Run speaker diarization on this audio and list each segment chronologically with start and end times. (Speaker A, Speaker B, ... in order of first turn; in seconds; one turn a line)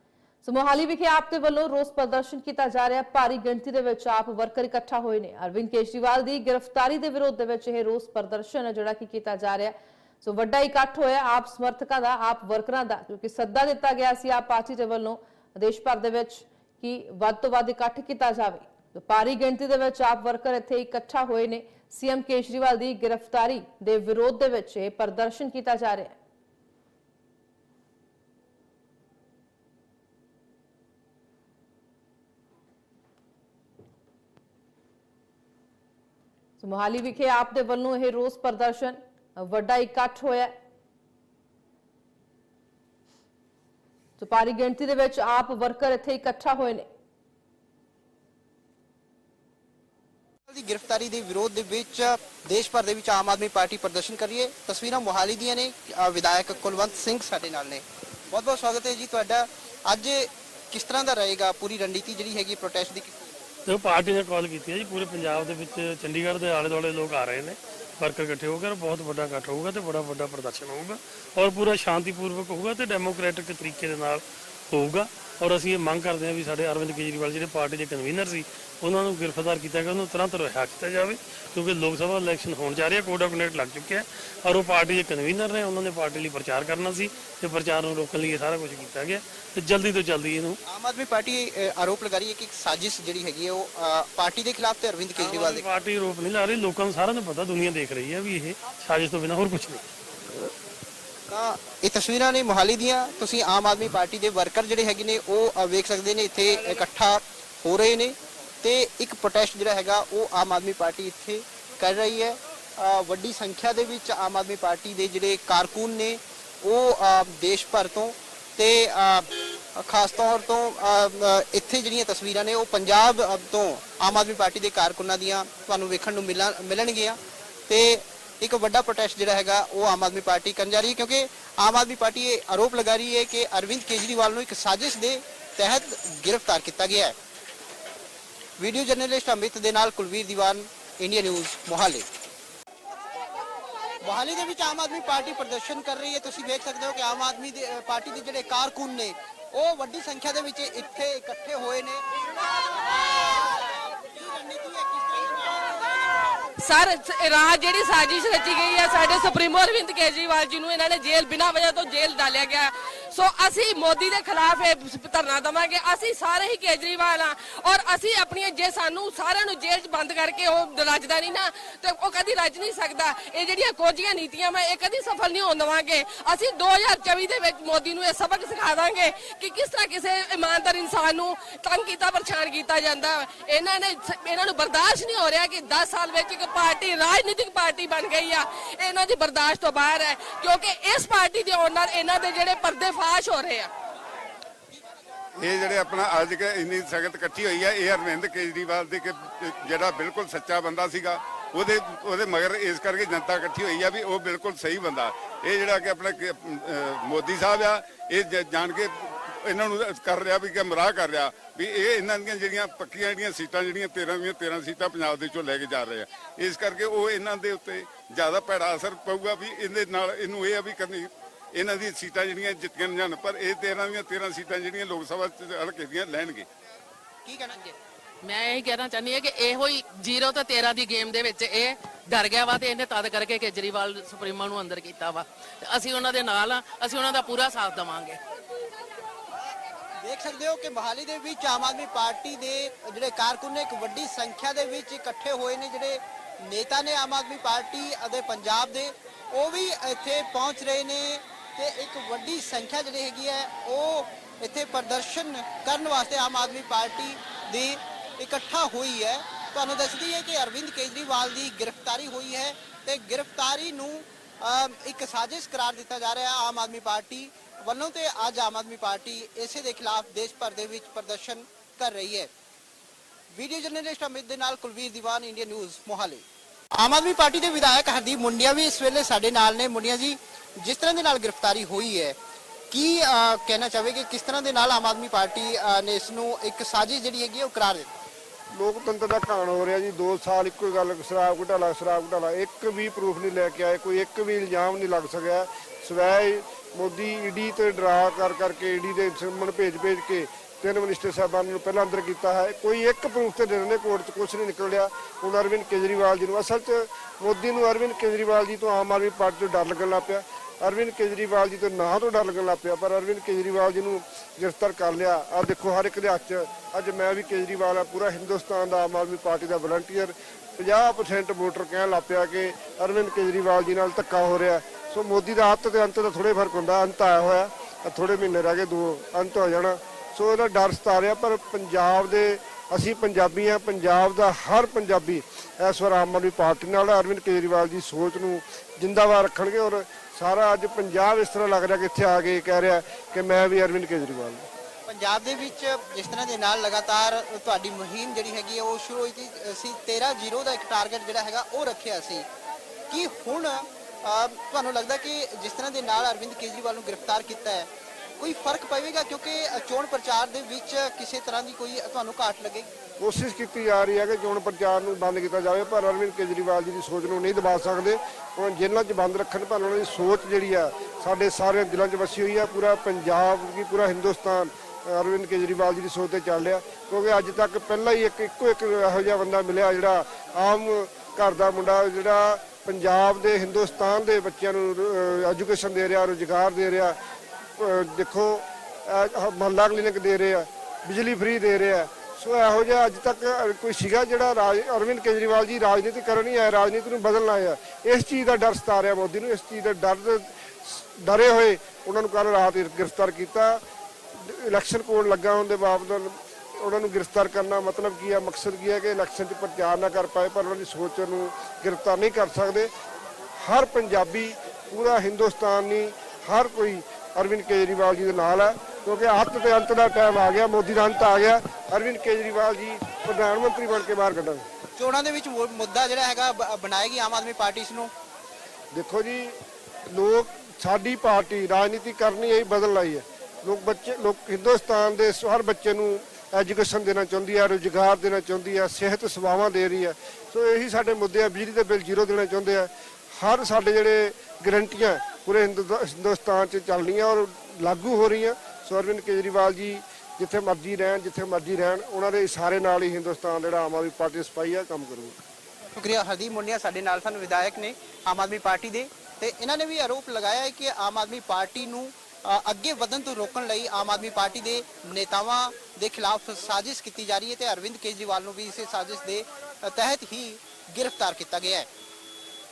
Speaker A: 0.4-26.1
Speaker A: 36.6-40.5
Speaker A: 44.2-46.9
Speaker B: 50.5-63.2
Speaker C: 63.7-90.6
Speaker B: 90.7-95.7
Speaker C: 95.2-99.8
Speaker B: 101.3-137.1
Speaker B: 138.6-142.1
Speaker B: 144.0-156.4
Speaker D: 156.6-193.7
Speaker E: 195.4-226.5
Speaker B: 227.2-227.7
Speaker F: 228.2-238.2
Speaker B: 240.0-272.3
Speaker B: 273.3-282.1
Speaker B: 282.7-287.9
Speaker G: 288.5-344.5
Speaker B: 344.9-352.3
Speaker B: 352.9-362.7
Speaker G: 363.0-387.0
Speaker G: 387.6-403.6
Speaker G: 404.2-412.7
Speaker G: 413.4-424.4
Speaker B: 424.8-427.9
Speaker G: 428.7-429.4
Speaker G: 429.9-455.2
Speaker B: 455.8-471.7